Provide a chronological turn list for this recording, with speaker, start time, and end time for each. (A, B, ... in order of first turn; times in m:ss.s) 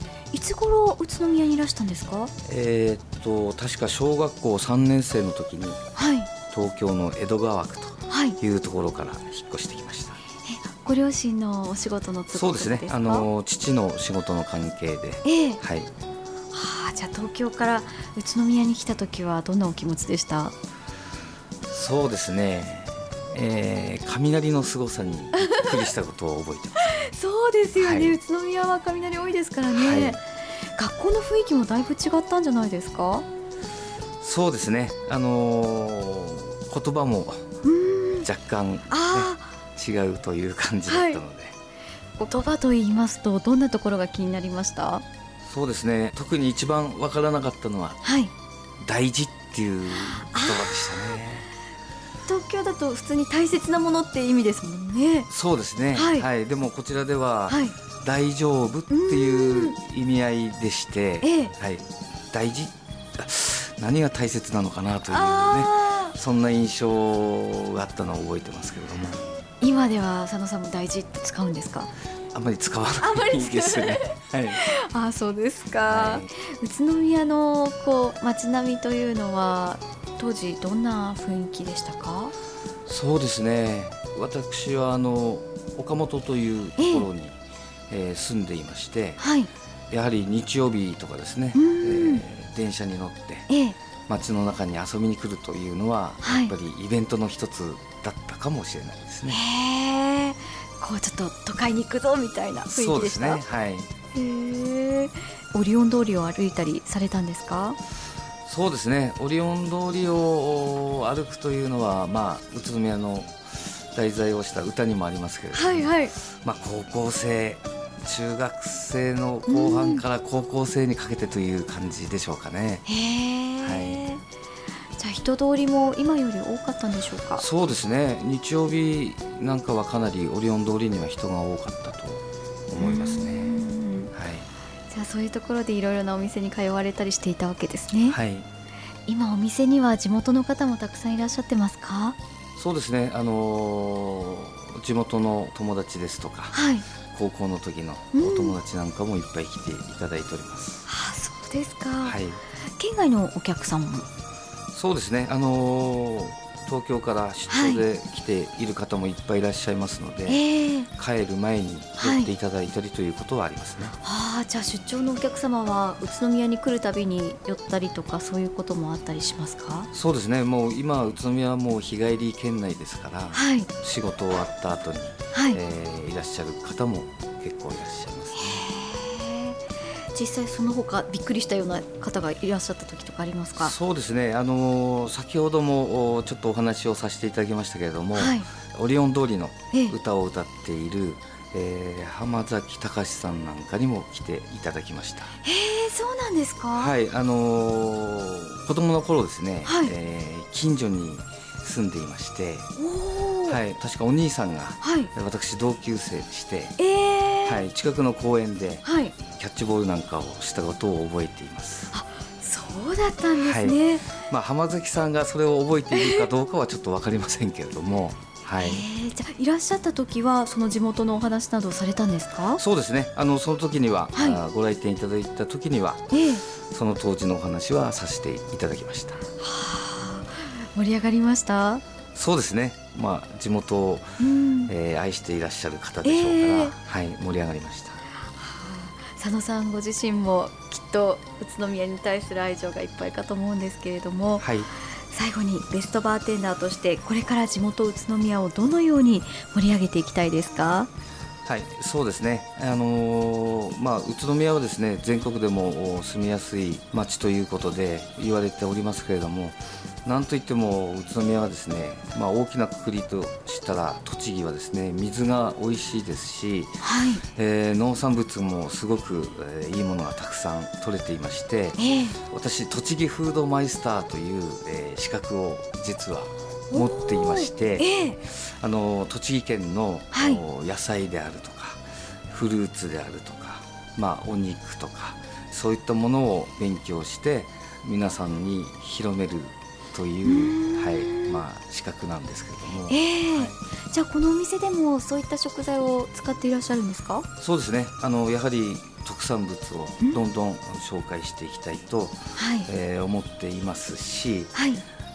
0:00.3-0:02.3 A
0:02.4-0:05.8 B
0:06.0-0:06.3 A
0:06.5-0:10.2 B
0:08.1-0:08.4 A
0:10.4-0:13.3 A
0:12.3-0:15.9 B
0:15.2-0:15.6 A
0:16.5-0:20.6 A
0:21.7-0:27.0 B
0:25.4-0:25.9 A
0:26.8-0:33.2 A
0:27.8-0:28.2 B
0:29.7-0:30.2 B
0:34.2-0:37.4 B
0:37.6-0:38.3 A
0:38.2-0:41.5 B
0:38.9-0:39.5 A
0:40.9-0:41.2 A
0:42.2-0:45.0 A
0:45.4-0:48.0 B
0:48.0-0:48.3 A
0:48.8-0:51.5 B
0:49.9-0:51.2 A
0:52.2-0:55.3 A
0:55.3-1:09.2 B
0:55.9-0:56.3 A
0:57.5-0:57.7 A
0:58.9-0:59.8 A
1:01.2-1:01.5 A
1:05.1-1:06.1 A
1:09.6-1:11.9 A
1:12.3-1:14.6 B
1:13.0-1:22.3 A
1:15.9-1:16.3 B
1:22.9-1:27.4 B
1:26.8-1:27.1 A
1:27.9-1:29.2 B
1:29.2-1:29.5 A
1:29.9-1:33.5 B
1:31.5-1:32.2 A
1:33.5-1:33.8 A
1:34.1-1:39.4 B
1:36.2-1:36.5 A
1:39.3-1:43.4 A
1:42.6-1:43.9 B
1:44.1-1:47.8 A
1:48.4-1:53.4 B
1:53.9-2:02.8 B
1:55.5-1:56.1 A
1:59.5-2:00.0 A
2:02.8-2:04.2 A
2:03.6-2:04.1 B
2:05.0-2:07.4 A
2:07.4-2:13.5 B
2:12.8-2:14.1 A
2:14.1-2:14.5 B
2:14.9-2:18.2 A
2:18.1-2:18.5 B
2:19.1-2:22.2 A
2:22.6-2:26.6 B
2:26.5-2:26.8 A
2:27.1-2:30.8 B
2:28.1-2:28.6 A
2:30.9-2:34.1 A
2:32.0-2:32.4 B
2:34.7-2:40.4 B
2:37.5-2:37.8 A
2:40.3-2:40.9 A
2:40.9-2:43.9 B
2:42.0-2:42.3 A
2:44.0-2:49.9 A
2:49.9-2:58.6 B
2:53.3-2:53.7 A
2:55.3-2:55.6 A
2:58.3-2:59.6 A
3:00.1-3:03.7 A
3:03.6-3:15.3 B
3:08.1-3:08.5 A
3:15.4-3:16.9 A
3:16.7-3:22.7 B
3:19.6-3:19.9 A
3:22.8-3:23.6 A
3:23.5-3:26.8 B
3:24.8-3:25.1 A
3:26.8-3:27.6 A
3:27.4-3:31.9 B
3:28.8-3:29.1 A
3:31.9-3:34.2 A
3:33.3-3:38.8 B
3:35.9-3:36.2 A
3:38.6-3:42.6 A
3:42.6-3:49.2 B
3:44.1-3:44.4 A
3:46.1-3:46.4 A
3:49.4-3:51.8 A
3:52.1-3:58.0 B
3:54.2-3:54.7 A
3:56.0-3:56.8 A
3:58.3-4:04.5 A
4:04.4-4:04.7 B
4:05.1-4:10.9 A
4:11.4-4:26.8 B
4:26.8-4:27.2 A
4:27.3-4:53.6 B
4:31.8-4:32.2 A
4:36.7-4:38.2 A
4:40.1-4:40.4 A
4:50.2-4:51.4 A
4:52.8-4:57.3 A
4:57.4-5:04.5 B
5:02.4-5:02.7 A
5:04.5-5:04.8 A